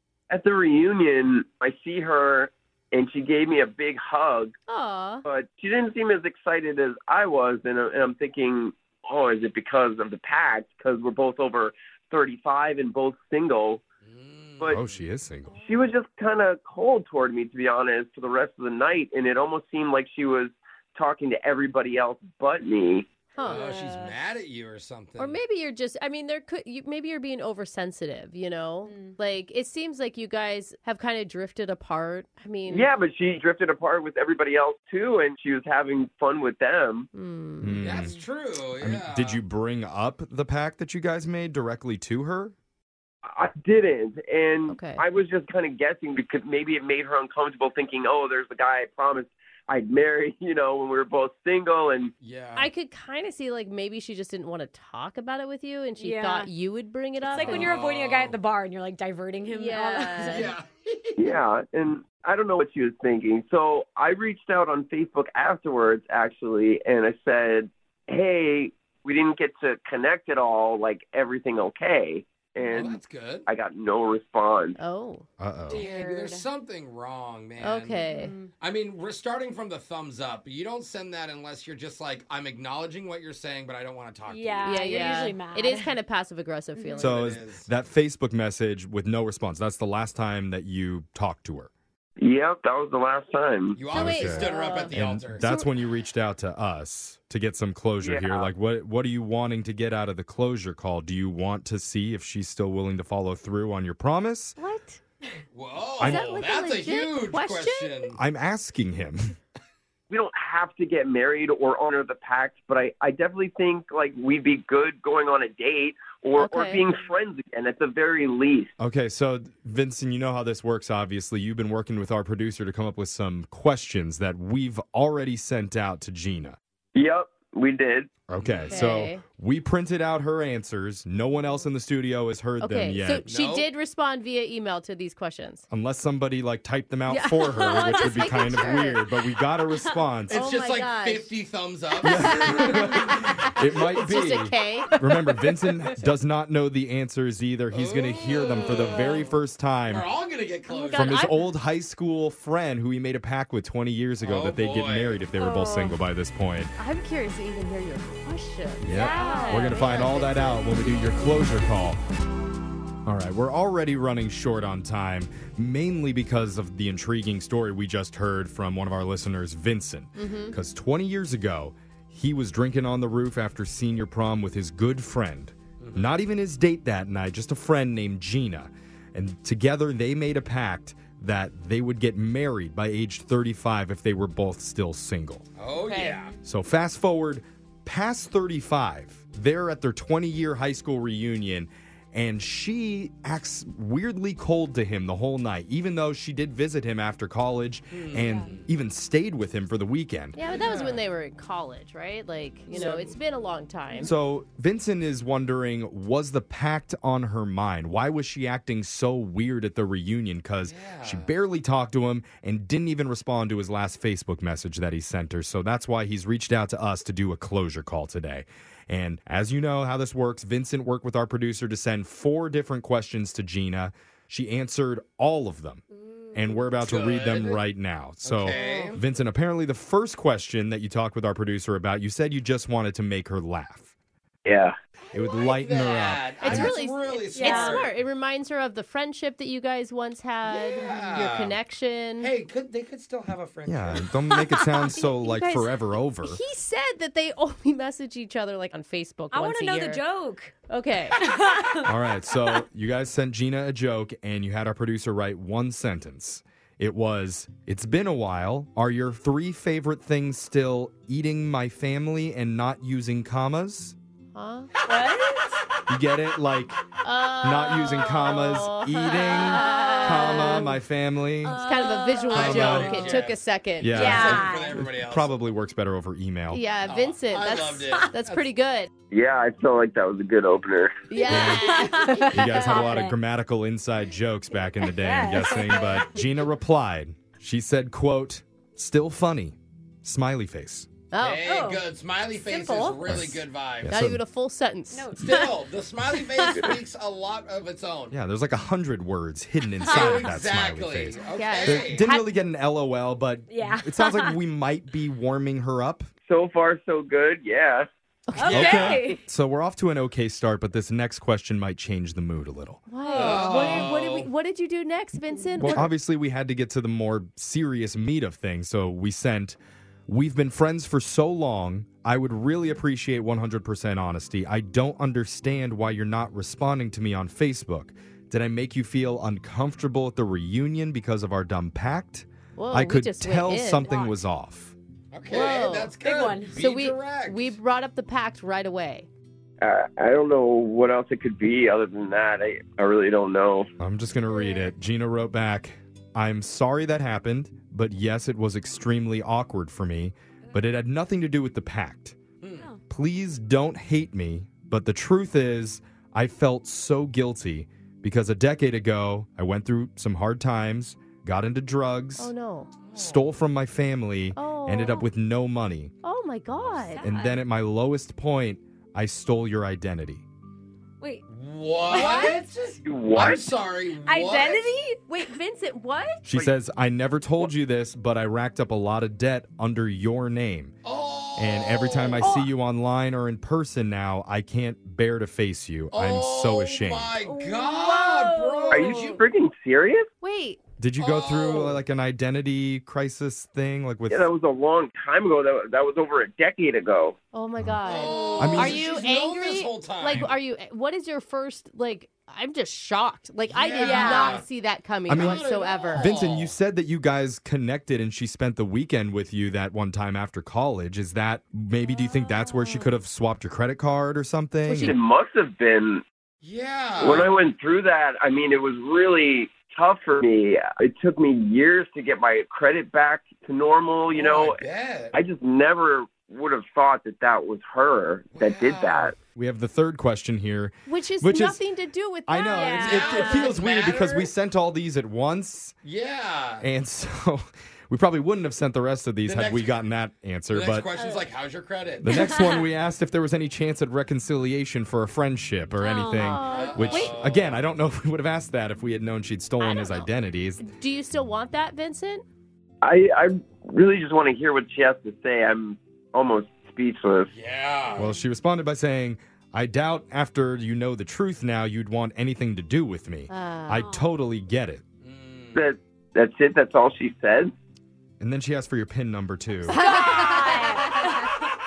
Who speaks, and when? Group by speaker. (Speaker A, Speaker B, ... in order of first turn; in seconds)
Speaker A: 0.3-4.5, 5.2-13.8, 15.5-23.1, 32.7-37.1, 43.2-52.1, 61.2-74.8, 92.2-93.8, 98.0-98.5, 110.1-118.7, 126.9-128.1, 234.4-234.8, 279.1-281.1, 306.2-307.9, 339.6-343.7, 372.8-373.5, 388.7-390.1, 394.1-397.2, 414.8-416.0, 417.0-424.6, 425.1-429.1, 452.8-457.3, 465.5-467.5
Speaker B: 4.7-5.2, 23.4-23.7, 25.2-32.9, 37.1-37.9, 44.7-45.0, 52.5-57.7, 59.5-60.5, 74.8-75.2, 77.6-78.3, 84.6-87.3, 93.9-95.7, 104.6-105.0, 106.0-108.1, 116.4-116.8, 128.7-129.2, 132.6-135.7, 137.1-139.1, 140.3-141.3, 142.0-145.7, 150.7-151.5, 156.8-160.8, 170.2-170.6, 185.8-186.2, 200.3-204.1, 228.5-228.9, 236.4-242.3, 245.1-250.0, 250.7-251.2, 264.3-264.7, 267.0-270.8, 271.5-274.5, 276.5-278.9, 281.1-283.0, 291.1-291.6, 292.4-293.2, 293.9-295.2, 301.3-302.3, 308.3-308.9, 312.9-315.9, 332.6-334.1, 335.3-336.0, 336.5-339.1, 362.2-362.7, 364.4-365.1, 366.0-367.0, 371.9-372.3, 375.1-376.2, 390.2-390.6, 397.3-406.1, 414.7-415.0, 430.9-433.4, 446.2-447.1, 449.6-450.1, 450.6-452.2, 463.3-463.9, 469.7-471.3
Speaker C: 14.0-14.9, 23.4-25.4, 37.8-39.4, 52.2-52.7, 57.3-58.4, 60.2-61.1, 72.6-73.5, 75.7-78.0, 78.6-85.2, 87.0-87.7, 93.7-95.5, 105.5-108.2, 128.4-128.8, 133.2-133.7, 140.3-142.9, 147.7-149.1, 149.9-151.3, 154.2-155.2, 175.8-176.1, 185.6-186.3, 197.9-198.6, 200.5-201.0, 202.7-203.0, 210.6-211.3, 226.8-227.6, 228.2-229.0, 235.2-237.9, 240.5-241.6, 242.2-244.1, 272.3-273.4, 273.9-275.3, 276.8-278.4, 291.2-294.0, 295.1-298.1, 299.9-302.1, 308.4-309.0, 313.1-314.3, 335.1-337.5, 352.4-352.7, 362.8-363.3, 371.3-374.7, 380.8-382.3, 385.9-389.2, 391.0-391.8, 397.8-400.3, 403.5-404.4, 405.1-406.5, 416.4-417.3, 424.1-425.1, 428.3-429.1, 432.8-434.3, 435.8-436.6, 439.2-439.8, 440.5-442.2, 446.5-447.6, 457.3-458.1, 465.0-465.7
Speaker D: 14.7-15.5, 37.6-38.2, 38.8-42.5, 75.4-75.8, 87.0-91.7, 93.9-104.6, 106.0-106.3, 108.1-109.3, 118.8-126.6, 128.3-133.2, 135.7-140.4, 142.0-150.1, 150.9-156.7, 158.8-162.0, 163.1-185.5, 186.4-200.4, 204.0-233.9, 235.1-236.7, 243.7-246.4, 251.8-263.9, 265.9-266.8, 267.4-271.6, 272.3-273.2, 273.8-276.6, 281.3-290.9, 293.1-294.2, 298.1-306.1, 308.5-312.9, 315.6-319.6, 320.1-334.7, 343.8-352.2, 352.9-362.3, 362.9-365.9, 367.0-370.2, 376.2-380.7, 381.4-387.1, 390.8-394.3, 398.4-398.8, 405.1-405.4, 405.9-414.9, 429.3-431.6, 432.2-435.8, 436.6-440.9, 442.0-450.6, 458.0-464.8, 468.2-469.8
Speaker E: 23.4-24.2, 28.9-29.2, 56.0-56.5, 57.2-60.5, 75.7-76.5, 78.0-78.5, 84.3-86.0, 86.8-87.0, 155.4-156.0, 158.9-160.0, 198.2-198.5, 225.9-226.6, 237.3-237.8, 249.3-250.5, 251.2-251.9, 264.9-265.6, 269.5-270.6, 271.4-272.6, 273.9-274.7, 281.2-283.1, 284.8-286.2, 291.4-291.8, 294.9-295.6, 296.1-296.7, 299.9-300.3, 303.5-304.4, 308.4-309.2, 313.0-313.8, 335.5-336.6, 344.3-344.7, 366.7-367.4, 371.8-372.4, 374.0-375.3, 387.2-389.2, 403.8-404.4, 411.9-412.9, 432.4-433.5, 440.9-441.3, 442.1-442.7, 445.8-447.1, 463.8-464.0, 469.7-471.4